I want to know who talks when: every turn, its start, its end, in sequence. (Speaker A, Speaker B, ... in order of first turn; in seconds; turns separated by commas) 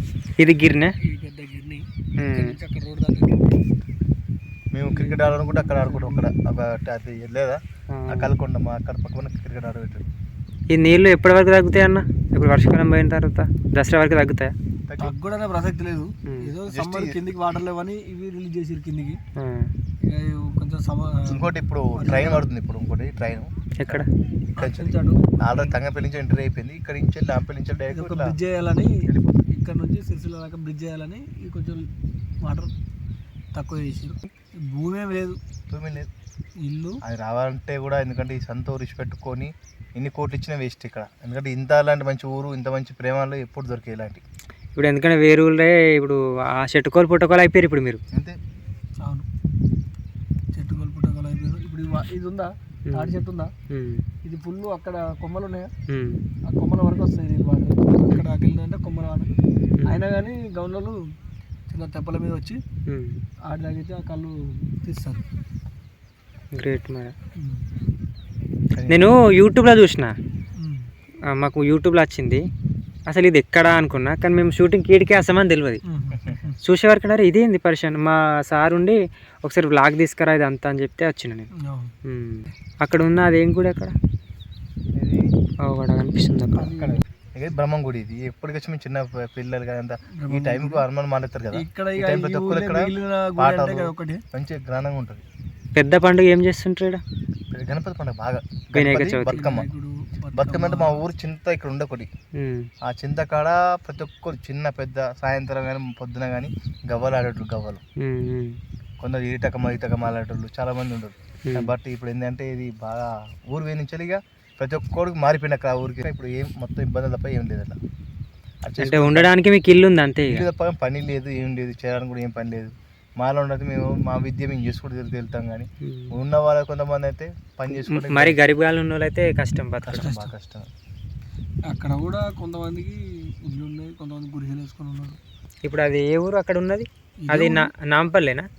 Speaker A: 0.4-0.9, Speaker B: 1.0-3.6, Speaker A: 2.2-2.6, Speaker C: 4.7-10.1, Speaker B: 4.9-6.3, Speaker A: 7.9-8.3, Speaker A: 10.7-14.5, Speaker C: 14.9-15.1, Speaker B: 15.0-19.2, Speaker A: 16.3-16.5, Speaker C: 16.7-17.1, Speaker A: 19.4-19.7, Speaker B: 20.0-22.5, Speaker C: 21.3-24.1, Speaker A: 23.8-24.1, Speaker B: 24.6-25.8, Speaker C: 24.6-28.3, Speaker B: 27.9-28.9, Speaker C: 29.1-29.4, Speaker B: 29.5-31.9, Speaker B: 32.4-32.7, Speaker B: 33.5-35.4, Speaker C: 35.7-36.1, Speaker B: 36.6-37.0, Speaker C: 37.0-44.2, Speaker A: 44.8-48.0, Speaker B: 50.5-53.5, Speaker A: 52.9-53.2, Speaker A: 53.7-54.0, Speaker B: 54.2-55.7, Speaker A: 55.9-56.2, Speaker B: 56.5-59.3, Speaker B: 59.9-61.0, Speaker B: 61.7-62.6, Speaker A: 62.9-63.2, Speaker B: 63.5-65.2, Speaker A: 66.6-67.1, Speaker B: 67.4-67.7, Speaker C: 68.7-69.0, Speaker A: 68.9-70.1, Speaker B: 70.6-70.9, Speaker A: 71.3-72.4, Speaker A: 73.1-75.8, Speaker B: 75.9-76.6, Speaker A: 76.6-81.5, Speaker B: 81.6-81.9, Speaker A: 82.0-84.0, Speaker C: 85.0-85.2, Speaker A: 85.6-86.7, Speaker B: 86.6-87.0, Speaker C: 86.8-95.2, Speaker B: 90.2-90.8, Speaker B: 91.5-94.2, Speaker A: 95.8-97.0, Speaker C: 97.5-99.7, Speaker A: 98.7-99.4, Speaker B: 99.3-101.0, Speaker C: 100.4-102.1, Speaker A: 102.4-102.7, Speaker C: 102.9-107.8, Speaker A: 108.0-108.6, Speaker C: 109.0-117.8, Speaker A: 111.5-111.7, Speaker C: 118.6-119.3, Speaker A: 118.8-120.5, Speaker C: 120.3-128.4, Speaker A: 125.8-126.1, Speaker A: 127.7-130.1, Speaker C: 129.9-130.7, Speaker B: 130.0-130.3, Speaker B: 131.7-135.2, Speaker A: 135.6-138.5, Speaker B: 137.2-137.7